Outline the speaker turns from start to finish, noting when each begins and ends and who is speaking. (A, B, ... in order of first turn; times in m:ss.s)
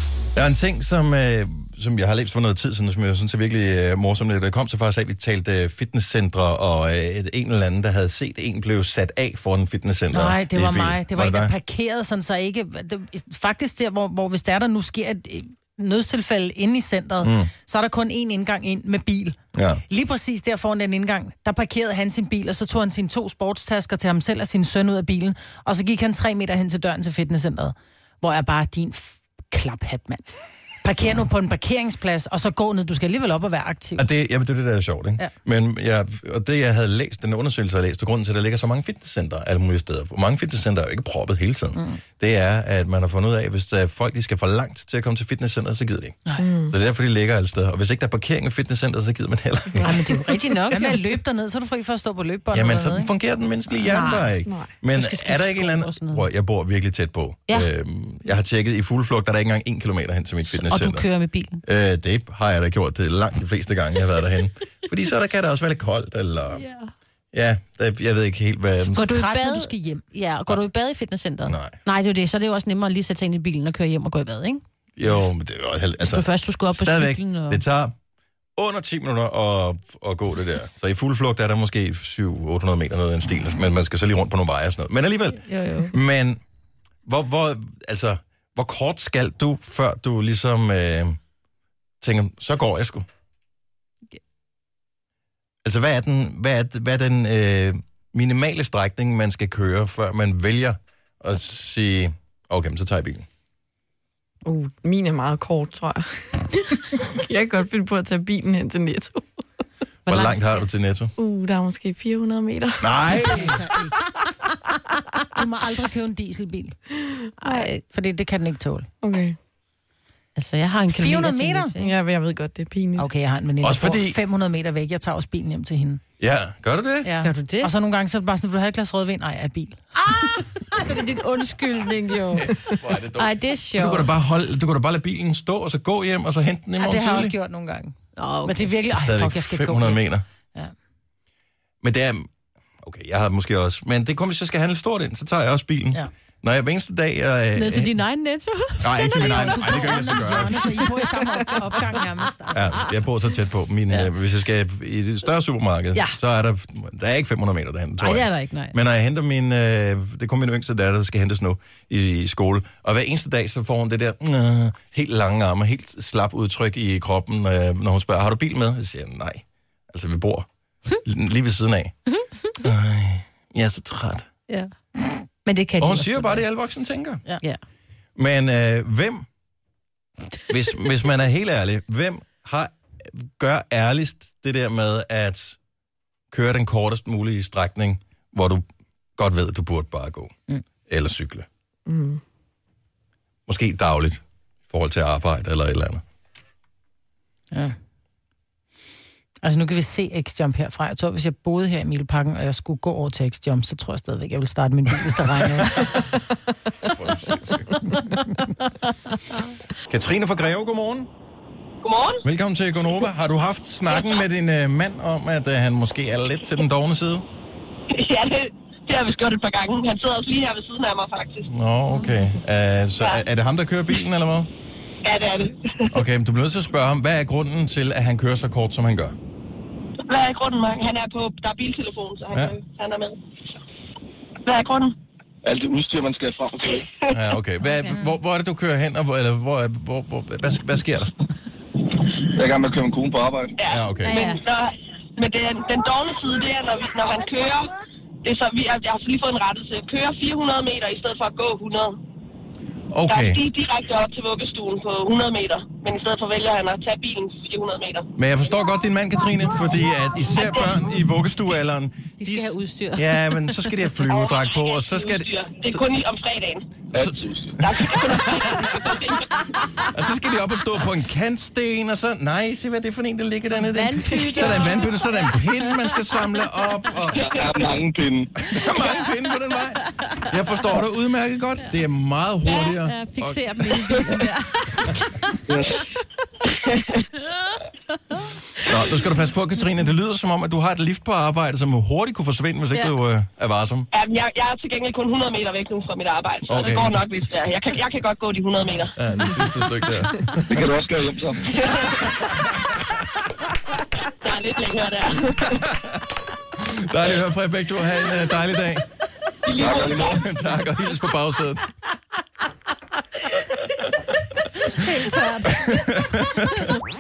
0:00.3-0:11.5 A
0:10.1-0:19.4 B
0:17.2-0:17.5 A
0:19.5-0:19.8 A
0:19.9-0:30.2 B
0:30.8-0:34.0 B
0:34.0-0:50.1 A
0:46.4-0:46.7 C
0:49.8-0:53.1 B
0:49.8-0:51.2 D
0:52.5-1:01.1 A
0:53.8-0:54.3 D
0:54.5-0:54.8 C
0:54.9-0:56.2 D
1:00.5-1:01.6 D
1:01.6-1:06.6 A
1:06.5-1:06.9 D
1:07.3-1:09.1 A
1:08.9-1:10.0 B
1:08.9-1:14.6 D
1:11.4-1:11.8 A
1:15.0-1:17.9 A
1:16.0-1:17.6 D
1:18.6-1:26.4 A
1:25.4-1:25.9 D
1:27.0-1:31.2 A
1:32.0-1:33.0 A
1:35.6-1:43.2 A
1:44.4-1:49.2 C
1:50.0-1:51.1 A
1:50.1-1:50.4 D
1:51.2-1:52.9 C
1:52.8-1:53.7 A
1:53.0-1:54.0 B
1:55.3-1:56.8 B
1:57.4-1:57.8 D
1:57.8-1:58.9 B
1:59.0-1:59.4 C
2:00.4-2:02.0 D
2:00.9-2:01.7 B
2:01.8-2:03.1 C
2:03.0-2:06.0 B
2:03.6-2:04.2 A
2:06.2-2:07.1 A
2:07.0-2:10.4 B
2:07.2-2:07.7 D
2:10.0-2:14.1 D
2:12.3-2:17.3 A
2:16.8-2:20.0 B
2:18.2-2:18.6 D
2:18.9-2:20.2 A
2:21.8-2:22.3 A
2:22.8-2:28.0 A
2:27.5-2:30.0 D
2:28.8-2:30.8 A
2:29.2-2:32.8 B
2:32.5-2:50.5 A
2:38.0-2:38.8 D
2:51.0-2:51.9 A
2:52.5-2:54.2 A
2:55.4-2:56.4 D
2:55.8-2:57.2 A
2:58.2-2:59.2 A
3:00.5-3:05.6 A
3:06.3-3:08.6 A
3:09.2-3:10.3 A
3:10.9-3:11.4 A
3:11.9-3:12.2 C
3:13.5-3:16.0 A
3:19.4-3:26.0 B
3:26.8-3:27.9 A
3:29.9-3:31.1 A
3:31.8-3:32.2 E
3:32.2-3:37.2 A
3:37.9-3:41.5 E
3:41.5-3:44.5 A
3:43.0-3:43.2 E
3:45.0-3:46.0 E
3:45.9-3:49.1 A
3:50.1-3:53.2 E
3:54.4-3:55.0 E
3:55.4-3:56.9 F
3:57.1-4:01.1 A
4:02.3-4:03.5 F
4:03.6-4:12.0 E
4:03.7-4:04.2 A
4:04.0-4:04.4 D
4:12.9-4:13.4 A
4:13.1-4:18.1 E
4:18.2-4:25.8 A
4:22.2-4:23.5 D
4:24.0-4:26.7 E
4:26.9-4:27.6 F
4:26.9-4:28.7 A
4:27.6-4:29.3 E
4:29.9-4:37.2 A
4:33.7-4:35.0 D
4:37.1-4:37.7 E
4:37.3-4:38.3 F
4:38.4-4:44.1 A
4:42.8-4:45.3 D
4:45.5-4:45.8 F
4:46.5-4:47.0 E
4:48.6-4:53.9 A
4:53.9-4:58.9 E
4:56.5-4:56.9 A
4:59.0-5:00.6 A
5:00.5-5:01.5 F
5:01.5-5:02.1 E
5:04.1-5:05.6 E
5:06.6-5:08.8 A
5:09.5-5:10.2 F
5:09.5-5:10.2 E
5:10.1-5:11.7 A
5:14.8-5:15.7 D
5:15.5-5:16.7 A